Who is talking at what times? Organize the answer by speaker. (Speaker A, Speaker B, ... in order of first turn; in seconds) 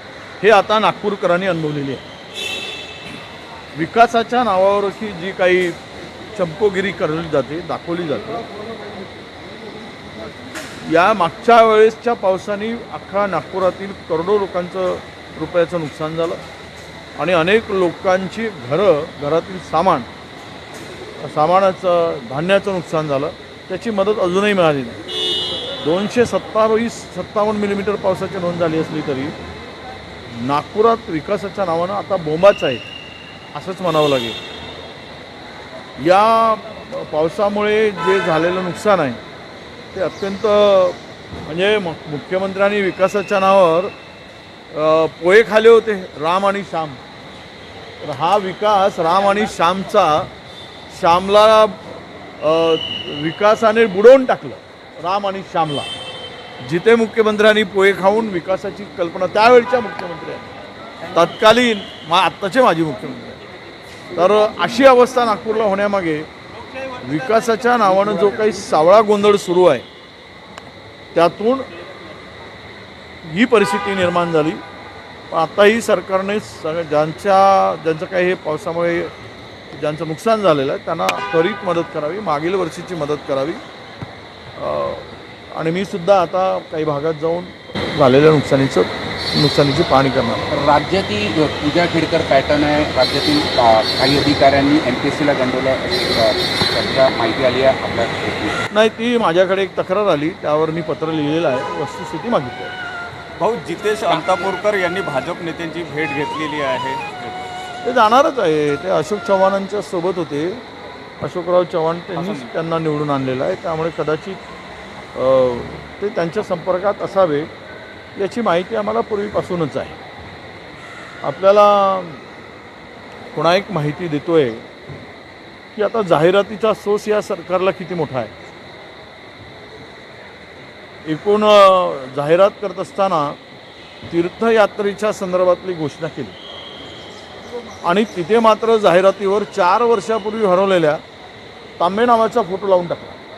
Speaker A: 0.4-2.0, 3.7-5.8, 6.3-8.4, 10.8-16.4, 17.2-20.1, 21.2-25.0, 25.8-29.3, 30.4-32.9, 33.5-34.4, 36.0-39.2, 39.9-43.9, 44.7-47.0, 48.0-50.3, 50.9-51.8, 52.4-55.9, 56.6-60.5, 61.1-63.4, 64.1-66.3, 66.9-69.8, 71.1-71.7, 73.2-74.6, 75.3-79.1, 79.7-83.6, 84.6-90.5, 98.7-102.7, 107.8-110.6, 111.2-114.4, 115.1-117.5, 118.2-120.0, 121.2-122.2, 123.3-124.6, 125.7-128.3, 131.1-133.4, 134.1-136.4, 137.8-141.0, 141.8-143.2
Speaker B: 90.5-98.7
Speaker C: 103.4-107.5, 112.2-112.5